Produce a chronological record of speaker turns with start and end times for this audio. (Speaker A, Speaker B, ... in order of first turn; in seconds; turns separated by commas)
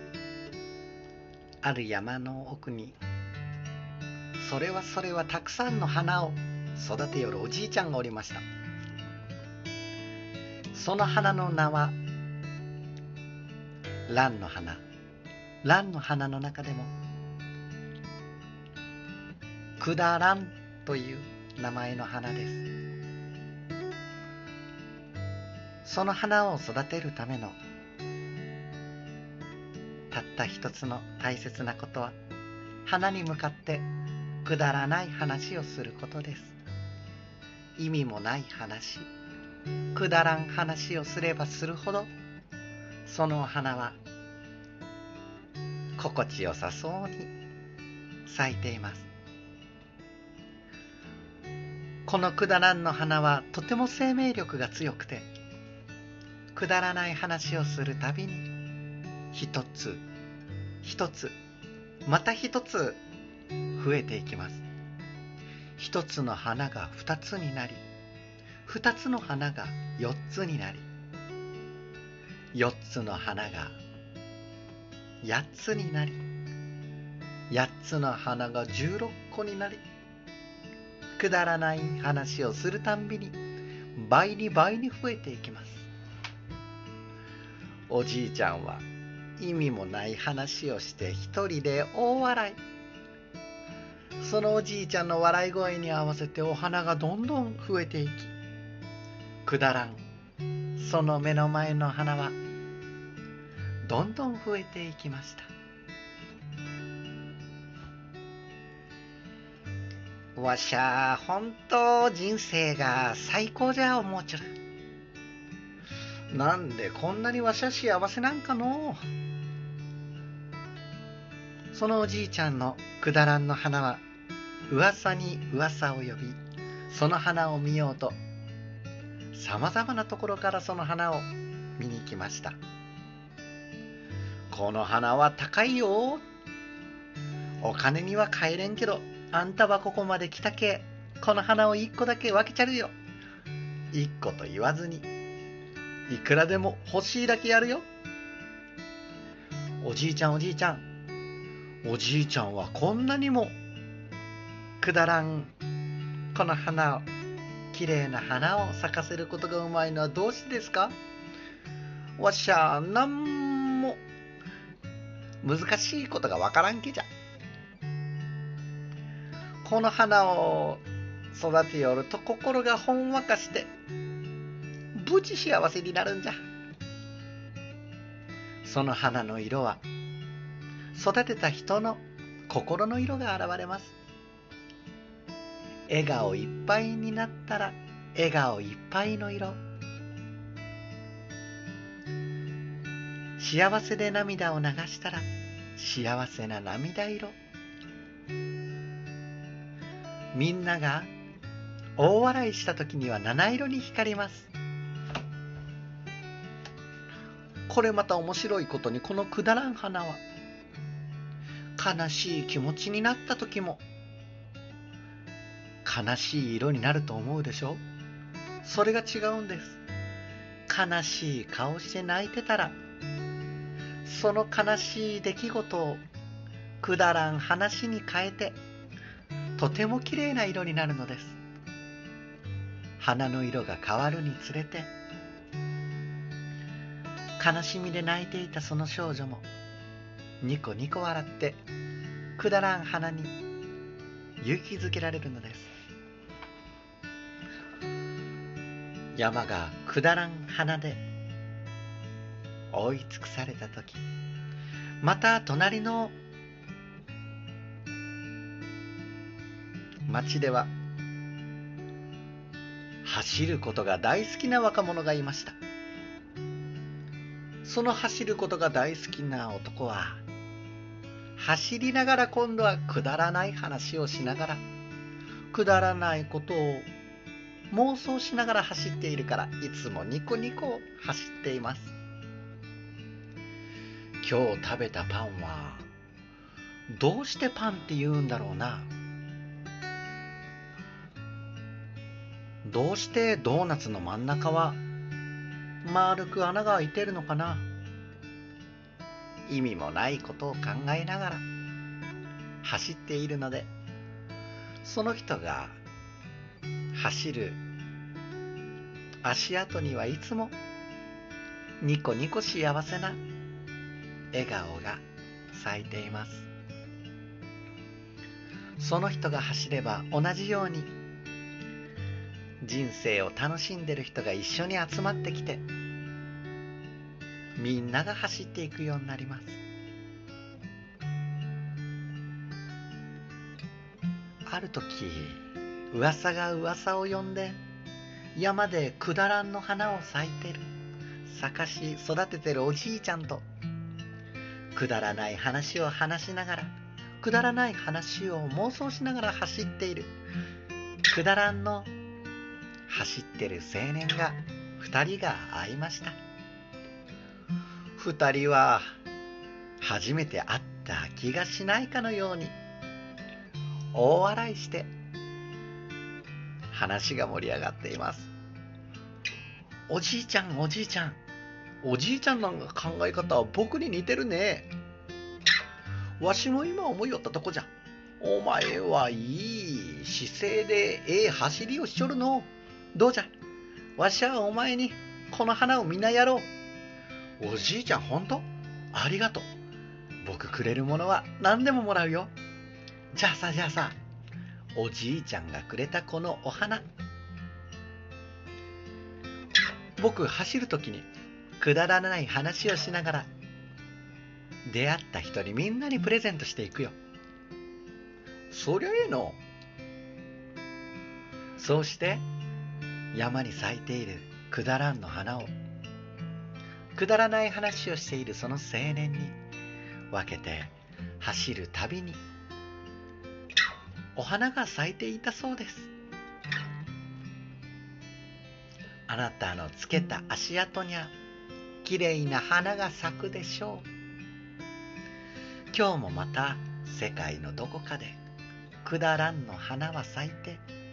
Speaker A: 1.6-3.0, Speaker A: 4.4-8.4, Speaker A: 10.7-12.0, Speaker A: 14.1-14.8, Speaker A: 15.6-16.9, Speaker A: 19.8-22.7, Speaker A: 25.8-27.6, Speaker A: 30.1-32.2, Speaker A: 32.8-33.9, Speaker A: 34.4-36.5, Speaker A: 37.8-39.1, Speaker A: 39.9-42.1, Speaker A: 43.0-44.0, Speaker A: 46.0-47.3, Speaker A: 48.2-49.1, Speaker A: 52.0-55.3, Speaker A: 56.5-58.5, Speaker A: 59.3-60.0, Speaker A: 60.8-61.4, Speaker A: 62.0-63.0, Speaker A: 63.7-64.6, Speaker A: 65.8-67.8, Speaker A: 68.6-70.9, Speaker A: 72.5-73.8, Speaker A: 75.2-76.2, Speaker A: 77.5-79.8, Speaker A: 81.2-83.4, Speaker A: 83.9-85.9, Speaker A: 87.9-88.8, Speaker A: 89.4-92.6, Speaker A: 94.2-98.3, Speaker A: 99.4-100.0, Speaker A: 100.8-102.4, Speaker A: 103.8-105.5, Speaker A: 110.3-114.5, Speaker A: 116.3-119.0, Speaker A: 121.7-124.0, Speaker A: 124.7-128.2, Speaker A: 129.3-132.6, Speaker A: 134.5-136.2, Speaker A: 137.6-142.9, Speaker A: 143.9-145.1, Speaker A: 146.1-147.9, Speaker A: 149.8-150.8, Speaker A: 151.8-153.6, Speaker A: 154.8-155.5, Speaker A: 156.3-157.1, Speaker A: 157.7-160.9, Speaker A: 162.2-164.0, Speaker A: 165.4-167.1, Speaker A: 169.6-173.7, Speaker A: 174.9-176.4, Speaker A: 178.6-179.8, Speaker A: 180.9-183.9, Speaker A: 185.9-189.6, Speaker A: 193.4-197.4, Speaker A: 200.3-201.1, Speaker A: 202.0-204.5, Speaker A: 207.7-210.2, Speaker A: 211.8-213.8, Speaker A: 215.8-217.8, Speaker A: 218.6-219.8, Speaker A: 220.7-222.8, Speaker A: 224.0-226.0, Speaker A: 226.8-228.6, Speaker A: 229.6-231.4, Speaker A: 233.0-234.9, Speaker A: 237.4-239.5, Speaker A: 240.4-241.6, Speaker A: 242.3-243.3, Speaker A: 244.4-245.7, Speaker A: 249.1-251.0, Speaker A: 252.7-254.0, Speaker A: 255.0-256.1, Speaker A: 260.1-260.7, Speaker A: 263.0-265.6, Speaker A: 267.6-270.2, Speaker A: 271.4-274.6, Speaker A: 275.5-276.9, Speaker A: 277.7-281.9, Speaker A: 284.2-285.9, Speaker A: 286.9-288.9, Speaker A: 292.6-294.8, Speaker A: 295.8-297.7, Speaker A: 299.5-301.4, Speaker A: 302.6-303.7, Speaker A: 304.8-305.8, Speaker A: 306.9-307.6, Speaker A: 309.2-310.6, Speaker A: 311.8-313.2, Speaker A: 314.3-316.5, Speaker A: 318.8-320.9, Speaker A: 322.6-325.6, Speaker A: 327.6-329.6, Speaker A: 334.4-337.6, Speaker A: 338.3-340.6, Speaker A: 341.2-343.4, Speaker A: 344.7-350.1, Speaker A: 351.1-351.9, Speaker A: 352.9-356.2, Speaker A: 357.9-358.9, Speaker A: 359.8-362.6, Speaker A: 363.9-364.9, Speaker A: 366.7-368.3, Speaker A: 369.9-371.2, Speaker A: 371.8-374.7, Speaker A: 376.2-383.3, Speaker A: 384.0-386.5, Speaker A: 387.4-389.5, Speaker A: 390.2-392.3, Speaker A: 393.1-394.0, Speaker A: 394.7-396.9, Speaker A: 400.0-401.1, Speaker A: 401.6-403.3, Speaker A: 404.6-406.9, Speaker A: 408.5-409.4, Speaker A: 411.6-412.2, Speaker A: 413.1-415.5, Speaker A: 416.9-419.4, Speaker A: 420.1-422.2, Speaker A: 424.1-425.9, Speaker A: 429.1-431.1, Speaker A: 431.8-433.9, Speaker A: 435.7-438.2, Speaker A: 438.8-440.6